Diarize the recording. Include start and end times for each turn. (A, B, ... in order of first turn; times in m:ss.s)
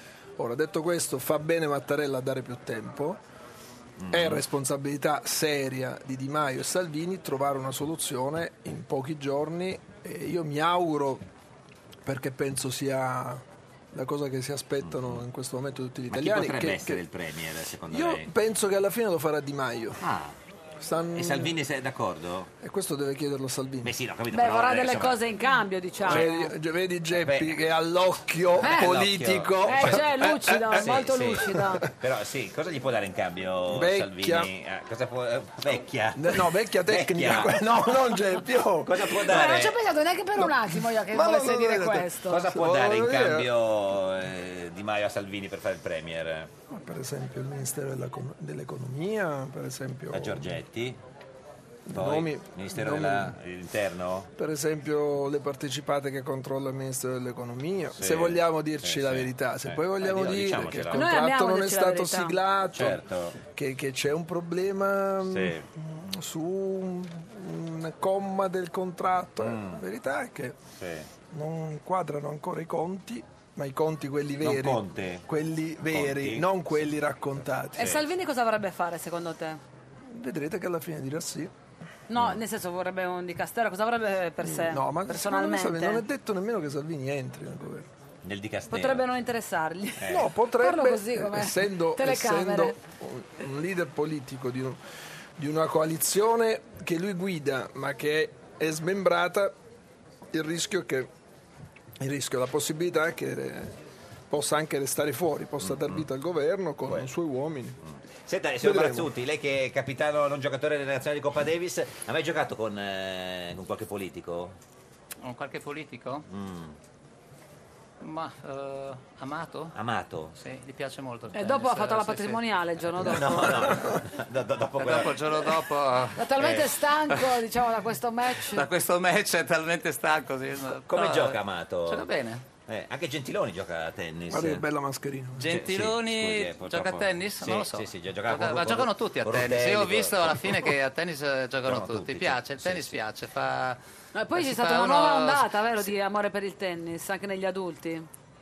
0:00.4-0:03.2 A
0:04.0-0:04.4 B
0:04.1-0:11.2 A
0:12.1-0:17.0 A
0:14.8-0:15.2 B
0:16.1-0:18.3 B
0:17.9-0:20.0 A
0:20.0-0:20.3 B
0:20.8-0:21.6 A
0:21.2-0:22.5 B
0:22.6-0:23.9 A
0:23.8-0:25.2 B
0:24.3-0:26.5 C
0:26.0-0:30.9 A
0:27.1-0:27.6 B
0:28.6-0:30.1 B
0:28.6-0:28.9 C
0:29.6-0:31.8 C
0:30.8-0:31.4 B
0:31.5-0:31.9 A
0:32.0-0:38.0 B
0:33.7-0:34.5 A
0:36.2-0:39.1 A
0:38.8-0:39.8 B
0:39.2-0:42.4 C
0:40.4-0:43.5 A
0:42.3-0:46.5 B
0:46.7-0:50.5 A
0:50.1-0:51.0 B
0:51.9-0:53.3 A
0:51.9-0:54.3 B
0:54.4-1:10.6 A
0:58.0-1:01.1 B
1:00.9-1:02.4 C
1:02.7-1:03.4 B
1:05.2-1:05.6 B
1:09.4-1:09.8 B
1:10.8-1:11.1 B
1:11.3-1:17.9 A
1:14.4-1:15.2 B
1:15.9-1:16.9 B
1:17.8-1:19.6 C
1:20.1-1:21.5 A
1:22.1-1:26.0 C
1:24.4-1:27.9 A
1:28.2-1:29.0 B
1:28.7-1:30.1 C
1:30.0-1:30.3 B
1:30.1-1:34.8 A
1:30.6-1:32.8 C
1:35.4-1:39.5 A
1:40.3-1:41.1 A
1:42.0-1:43.7 A
1:44.3-1:47.8 A
1:45.6-1:46.1 B
1:47.9-1:54.6 B
1:48.6-1:49.1 A
1:55.2-1:56.2 D
1:56.3-1:56.8 B
1:58.0-1:59.7 D
1:59.8-2:00.4 B
2:00.4-2:02.4 D
2:01.3-2:03.8 C
2:03.0-2:05.6 B
2:03.1-2:04.0 A
2:04.8-2:06.5 D
2:06.2-2:08.7 C
2:06.4-2:06.7 B
2:08.5-2:12.5 D
2:10.9-2:12.1 B
2:12.7-2:14.6 B
2:14.3-2:15.5 A
2:15.4-2:23.8 D
2:15.5-2:20.7 B
2:21.6-2:23.0 B
2:24.2-2:28.1 C
2:24.4-2:25.5 D